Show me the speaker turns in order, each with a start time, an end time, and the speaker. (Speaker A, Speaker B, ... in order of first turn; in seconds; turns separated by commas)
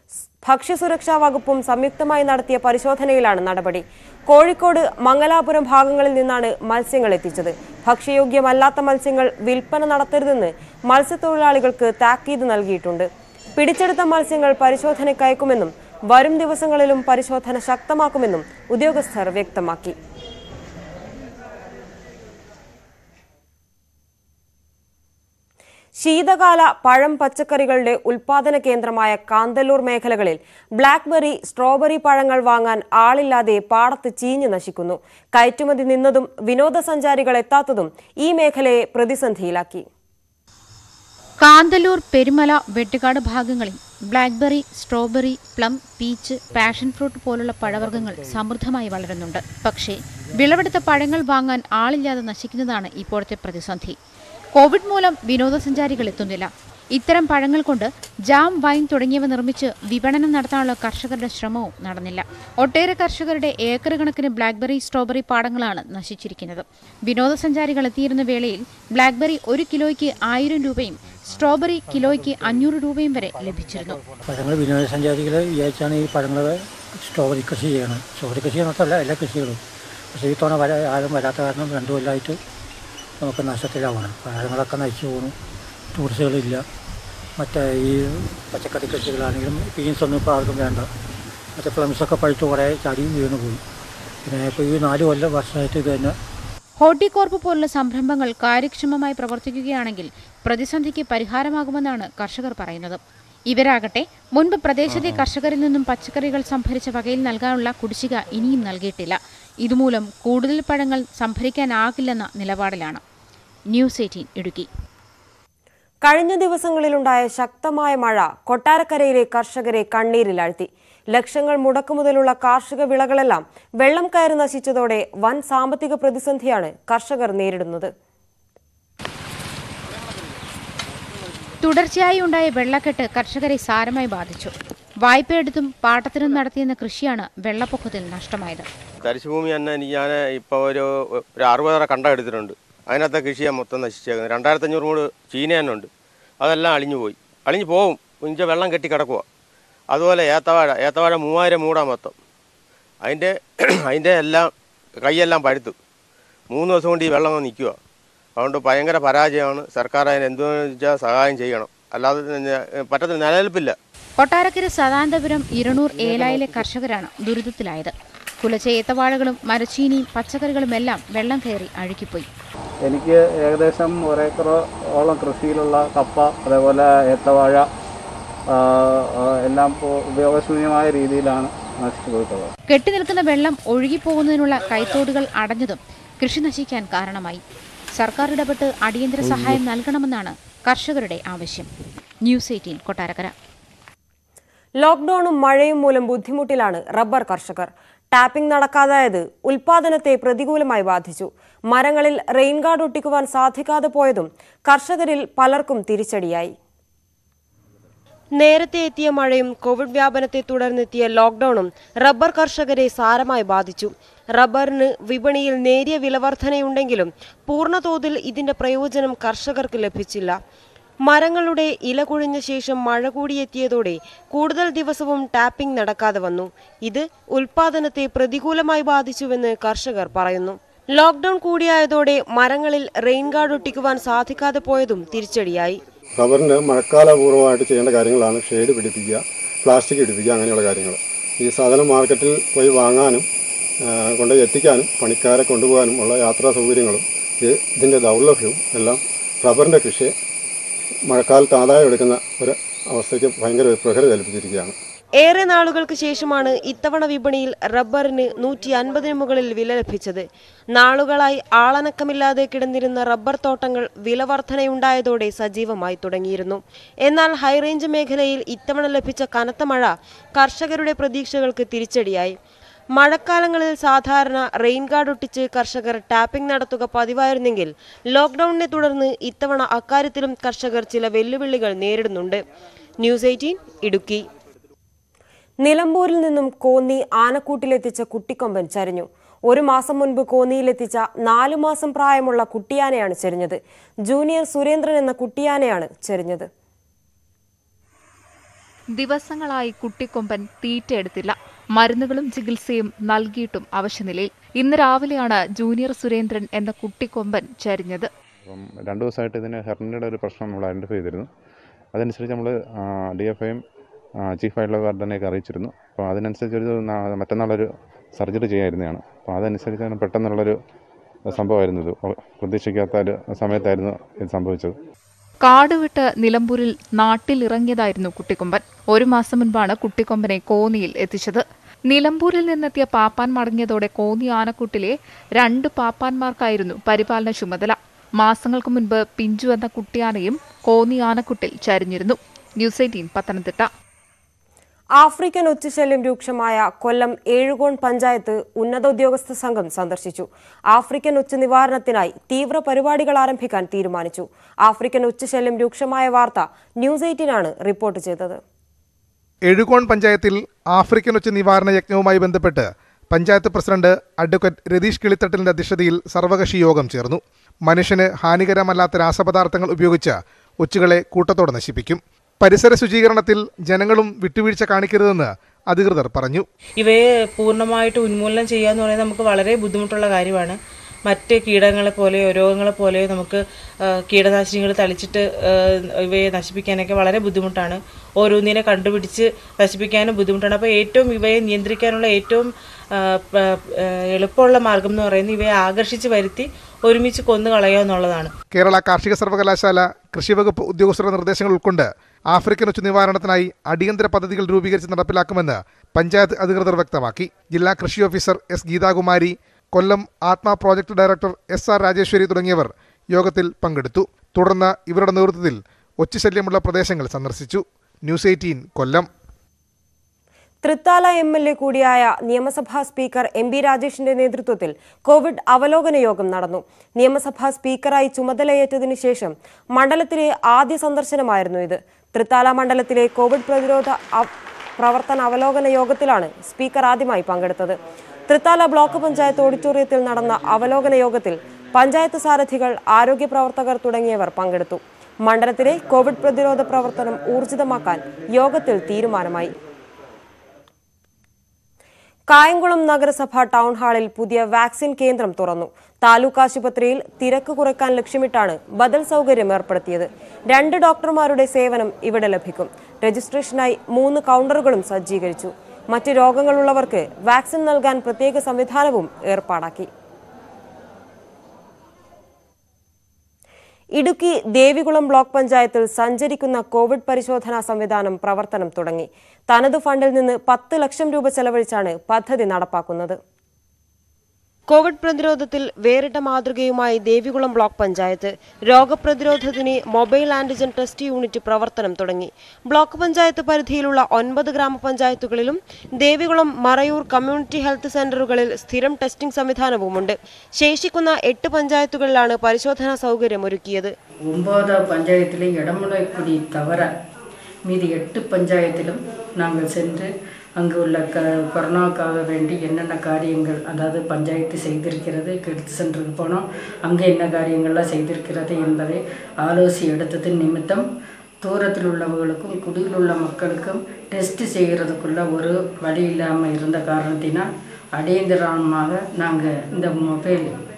Speaker A: 0.4-19.9, Speaker A: 26.0-39.8, Speaker B: 41.4-54.0, Speaker B: 54.5-74.0, Speaker C: 74.3-79.6, Speaker C: 80.1-82.4, Speaker C: 83.2-85.3, Speaker C: 85.9-86.6, Speaker C: 87.4-90.9, Speaker C: 91.6-93.6, Speaker C: 94.2-96.2, Speaker B: 96.8-113.0, Speaker B: 113.7-114.7, Speaker A: 116.0-127.9, Speaker B: 131.6-138.7, Speaker D: 139.0-145.9, Speaker D: 146.4-149.2, Speaker D: 149.9-152.1, Speaker D: 153.0-154.5, Speaker D: 155.0-155.7, Speaker D: 156.5-157.8, Speaker D: 158.4-163.8, Speaker B: 164.2-172.3, Speaker E: 166.0-166.6, Speaker E: 172.8-177.7, Speaker E: 178.5-182.5, Speaker B: 182.7-187.4, Speaker B: 188.0-191.7, Speaker B: 192.2-193.3, Speaker A: 194.8-206.5, Speaker A: 208.4-220.4, Speaker A: 221.1-235.8, Speaker F: 236.2-243.2, Speaker F: 243.8-250.1, Speaker F: 251.1-254.7, Speaker A: 255.2-260.2, Speaker A: 260.8-272.4, Speaker A: 273.0-282.4, Speaker A: 283.0-284.2, Speaker A: 285.6-296.5, Speaker G: 299.0-308.1, Speaker H: 308.4-311.3, Speaker H: 311.9-313.6, Speaker H: 314.2-320.6, Speaker H: 321.3-324.8, Speaker G: 325.4-343.6, Speaker A: 345.0-358.4, Speaker I: 359.5-376.4, Speaker J: 376.8-380.6, Speaker J: 381.1-383.4, Speaker J: 384.1-392.5, Speaker J: 393.0-393.6, Speaker J: 394.1-398.3, Speaker I: 398.5-419.1, Speaker A: 420.6-437.8, Speaker A: 438.3-449.5, Speaker A: 452.3-469.9, Speaker A: 474.0-483.2, Speaker A: 484.7-503.9, Speaker K: 504.3-506.9, Speaker K: 507.7-520.8, Speaker K: 521.4-530.5